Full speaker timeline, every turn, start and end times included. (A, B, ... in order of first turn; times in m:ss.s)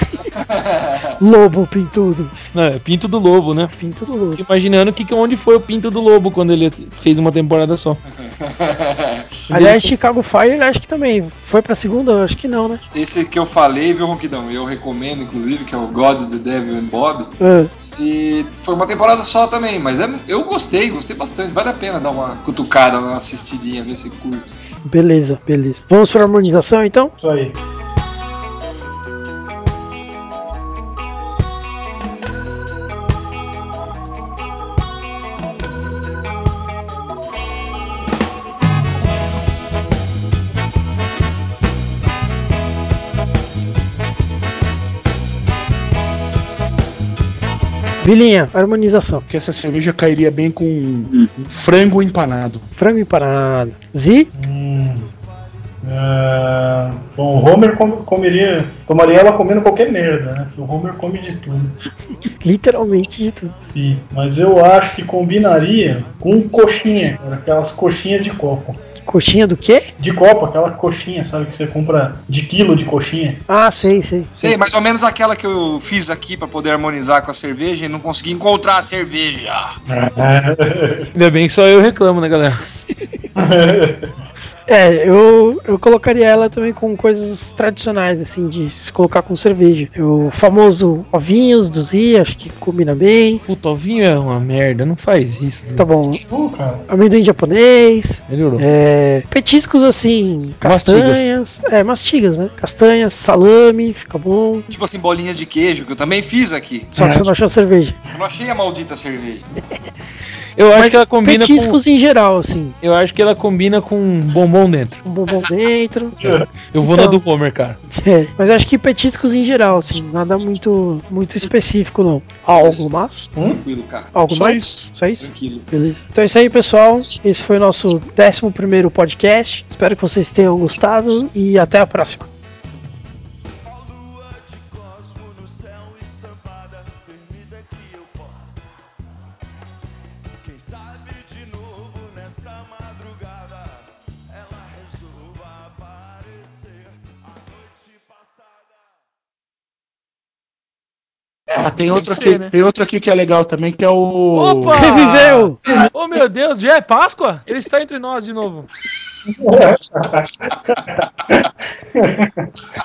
0:00.2-0:01.2 A
0:01.2-0:02.3 B
0:02.5-0:03.7 C
0:03.8-0:04.4 B
0:04.4-0:08.0 C
0:08.2-0:09.4 A
0:09.5-0:10.0 D
0:09.5-0:12.8 B
0:12.9-0:24.5 A
0:17.4-0:17.7 B
0:24.8-0:27.1 B
0:27.2-0:27.6 D
0:48.0-0:49.2 B
0:49.3-0:52.7 E
0:52.7-0:54.3 B
0:54.3-0:55.1 D
0:55.8-1:01.7 D
1:02.4-1:03.5 B
1:03.6-1:08.8 D
1:09.0-1:09.9 B
1:10.0-1:13.4 D
1:13.5-1:14.6 B
1:14.4-1:19.8 A
1:19.9-1:21.1 D
1:21.1-1:22.6 C
1:23.4-1:24.1 D
1:24.7-1:33.4 B
1:33.5-1:35.8 C
1:35.8-1:36.2 B
1:36.2-1:36.8 D
1:36.9-1:44.7 B
1:38.3-1:38.6 C
1:40.6-1:41.3 C
1:44.7-1:46.9 A
1:46.9-1:48.0 B
1:47.0-1:47.3 D
1:48.1-1:49.4 A
1:50.6-1:51.8 C
1:50.7-1:52.7 B
1:52.8-1:55.0 C
1:55.0-1:57.2 B
1:56.7-1:57.8 C
1:57.9-2:03.3 B
2:02.5-2:02.9 A
2:03.4-2:04.2 A
2:04.1-2:12.3 B
2:04.3-2:04.9 E
2:05.2-2:05.7 A
2:31.5-2:32.5 C
2:31.5-2:35.1 E
2:34.3-2:38.7 C
2:34.7-2:35.6 B
2:39.2-2:42.5 D